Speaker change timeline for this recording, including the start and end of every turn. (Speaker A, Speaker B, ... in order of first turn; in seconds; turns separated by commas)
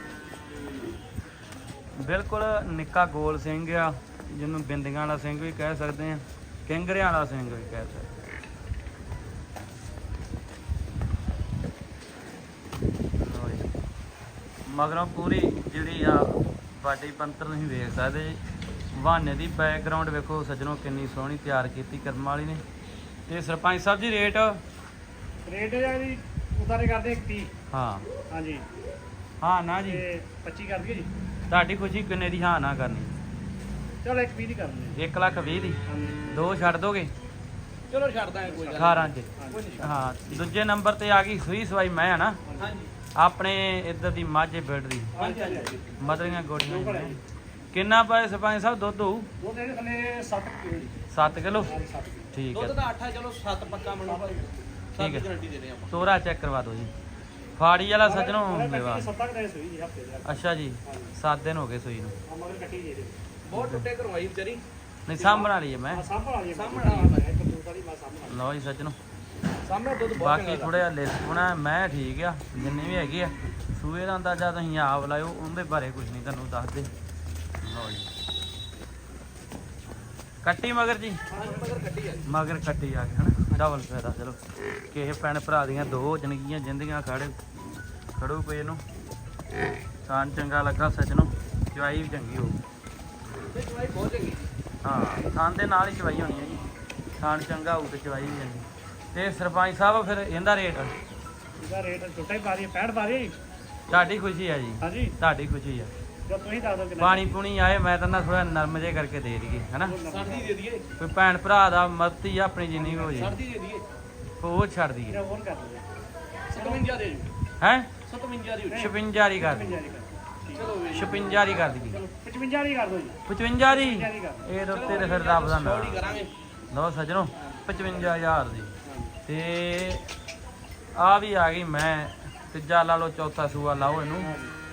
Speaker A: 2.0-8.1, Speaker A: 13.2-13.7, Speaker A: 14.7-18.4, Speaker A: 18.9-22.6, Speaker A: 23.3-24.6, Speaker B: 25.4-27.5, Speaker A: 27.7-28.1, Speaker B: 28.3-28.7, Speaker A: 29.4-30.0, Speaker B: 29.9-31.1, Speaker A: 31.5-33.1, Speaker B: 34.0-35.0, Speaker A: 35.0-37.1, Speaker B: 35.9-36.4, Speaker C: 37.9-40.0, Speaker B: 38.5-39.8, Speaker A: 38.7-42.4, Speaker B: 42.5-42.7, Speaker C: 42.6-42.9, Speaker A: 43.1-45.2, Speaker B: 45.1-45.8, Speaker C: 45.2-46.4, Speaker A: 46.0-47.2, Speaker B: 46.6-47.2, Speaker A: 47.7-49.3, Speaker B: 49.4-50.9, Speaker A: 51.1-51.7, Speaker B: 51.6-52.3, Speaker A: 52.3-52.8, Speaker C: 52.5-56.0, Speaker B: 54.0-54.4, Speaker A: 55.0-55.3, Speaker A: 55.9-56.9, Speaker A: 57.6-59.1, Speaker B: 58.0-61.1, Speaker A: 60.2-62.2, Speaker B: 62.3-63.1, Speaker C: 63.5-64.6, Speaker A: 63.5-63.8, Speaker A: 65.1-66.0, Speaker C: 65.2-65.5, Speaker B: 65.9-68.4, Speaker C: 66.5-67.2, Speaker A: 68.3-69.0, Speaker C: 69.6-70.9, Speaker A: 70.1-76.9, Speaker A: 77.6-78.1, Speaker A: 80.4-81.2, Speaker B: 81.3-81.8, Speaker C: 81.3-82.3, Speaker A: 82.2-84.4, Speaker A: 84.9-88.8, Speaker A: 90.0-92.6, Speaker C: 93.5-94.5, Speaker A: 94.8-96.6, Speaker A: 97.2-100.9, Speaker B: 101.6-103.4, Speaker A: 103.9-105.9, Speaker B: 104.8-105.1, Speaker B: 106.3-107.3, Speaker A: 107.0-110.0, Speaker B: 109.8-110.5, Speaker C: 110.1-110.9, Speaker A: 111.0-113.4, Speaker C: 112.7-113.8, Speaker A: 114.4-115.2, Speaker B: 115.1-115.8, Speaker C: 116.5-117.3, Speaker B: 116.5-116.8, Speaker A: 117.6-117.9, Speaker C: 118.0-118.8, Speaker B: 118.7-120.7, Speaker A: 118.7-119.8, Speaker C: 120.5-121.7, Speaker A: 120.9-122.0, Speaker B: 121.8-125.1, Speaker A: 123.3-126.0, Speaker C: 124.7-126.3, Speaker A: 126.7-128.7, Speaker B: 127.4-127.8, Speaker B: 128.8-129.1, Speaker A: 129.2-130.1, Speaker A: 130.9-134.3, Speaker B: 134.2-134.5